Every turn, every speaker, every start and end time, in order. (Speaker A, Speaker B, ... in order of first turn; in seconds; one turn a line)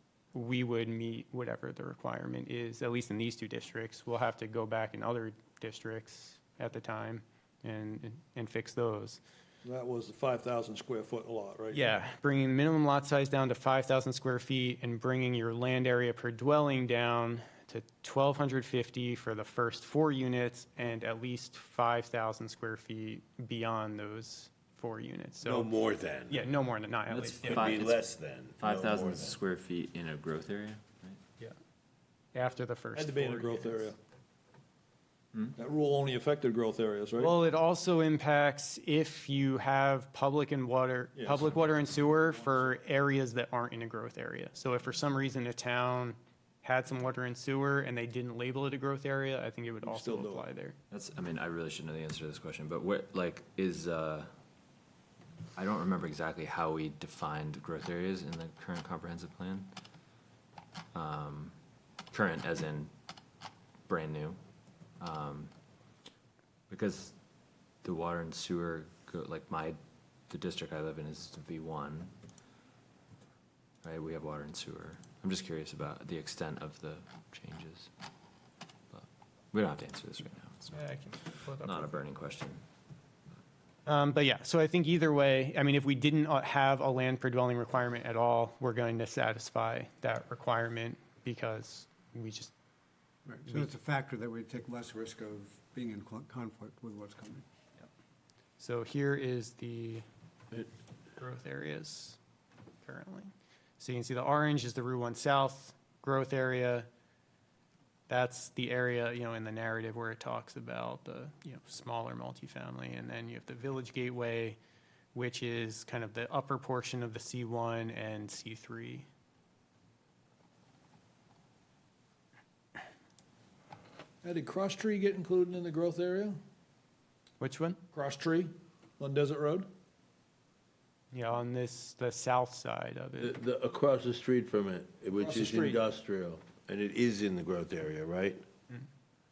Speaker A: 0.3-9.2
Speaker B: 9.6-12.0
Speaker A: 11.7-25.7
Speaker C: 25.4-26.5
Speaker A: 26.3-27.8
Speaker D: 27.1-28.1
Speaker C: 27.4-29.4
Speaker D: 28.6-31.2
Speaker A: 32.3-33.9
Speaker B: 33.0-34.0
Speaker B: 35.5-37.3
Speaker A: 37.2-50.8
Speaker B: 41.1-41.5
Speaker B: 50.0-50.4
Speaker D: 50.9-54.3
Speaker D: 55.5-59.7
Speaker D: 60.9-61.5
Speaker D: 62.1-62.9
Speaker D: 63.9-64.4
Speaker D: 65.0-65.5
Speaker D: 66.7-67.2
Speaker D: 67.8-69.8
Speaker D: 70.3-72.1
Speaker D: 73.8-77.9
Speaker D: 78.9-80.8
Speaker A: 80.7-82.0
Speaker D: 81.6-82.6
Speaker A: 83.8-92.5
Speaker E: 93.2-97.4
Speaker A: 98.6-100.0
Speaker A: 101.2-102.2
Speaker A: 102.8-106.9
Speaker A: 108.1-114.6
Speaker A: 115.1-119.1
Speaker B: 124.2-126.3
Speaker A: 127.4-127.8
Speaker B: 127.9-129.7
Speaker A: 131.1-133.3
Speaker C: 133.2-138.4
Speaker B: 135.2-135.8